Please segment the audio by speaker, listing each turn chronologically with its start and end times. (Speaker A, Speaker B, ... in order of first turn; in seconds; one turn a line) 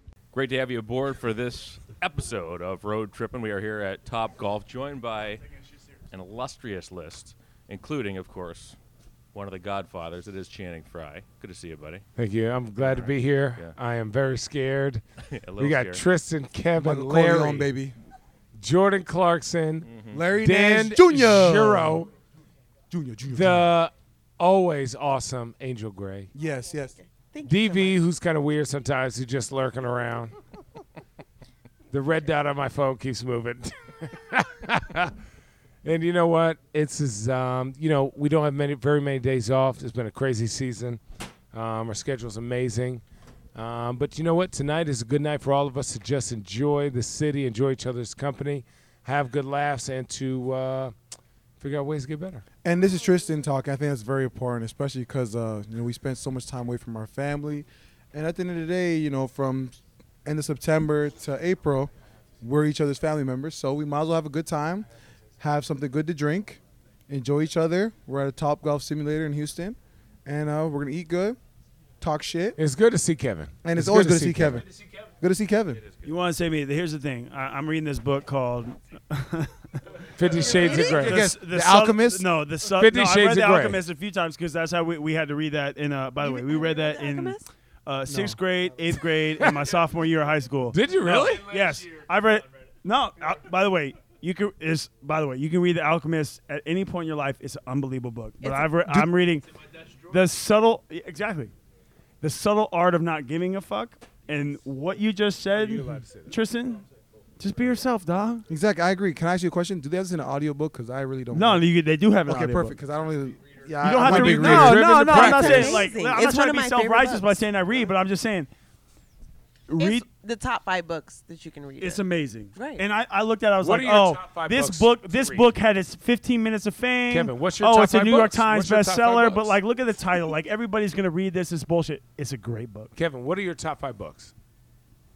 Speaker A: 0.3-5.4
Speaker A: 6.1-8.8
Speaker A: 9.3-12.0
Speaker B: 12.2-15.0
Speaker A: 12.8-13.8
Speaker A: 15.2-16.0
Speaker B: 15.6-17.7
Speaker C: 16.8-17.9
Speaker B: 18.6-22.1
Speaker A: 19.8-20.2
Speaker C: 20.1-22.0
Speaker C: 22.9-23.7
Speaker B: 23.3-26.3
Speaker C: 26.3-26.9
Speaker D: 26.7-28.0
Speaker B: 27.4-30.3
Speaker B: 31.9-35.1
Speaker B: 35.8-41.0
Speaker B: 41.5-43.0
Speaker B: 43.5-50.9
Speaker B: 51.6-52.5
Speaker C: 52.6-64.9
Speaker C: 65.4-71.4
Speaker C: 72.0-72.6
Speaker B: 72.6-74.6
Speaker C: 73.6-74.7
Speaker C: 75.2-75.8
Speaker E: 76.0-79.8
Speaker B: 80.2-81.2
Speaker D: 80.4-81.0
Speaker E: 80.6-99.5
Speaker C: 80.8-82.2
Speaker B: 82.7-83.8
Speaker D: 86.2-87.5
Speaker C: 88.1-88.4
Speaker B: 90.7-91.7
Speaker C: 98.8-99.1
Speaker E: 100.1-101.5
Speaker E: 102.2-106.8
Speaker B: 105.5-106.3
Speaker E: 107.4-108.5
Speaker C: 108.5-111.6
Speaker E: 111.3-112.8
Speaker C: 112.3-115.0
Speaker E: 113.8-118.5
Speaker B: 113.9-115.8
Speaker D: 115.0-117.4
Speaker E: 119.7-120.0
Speaker D: 119.8-122.0
Speaker E: 121.8-132.9
Speaker D: 122.5-122.8
Speaker B: 123.6-125.5
Speaker B: 127.1-129.6
Speaker B: 132.9-134.3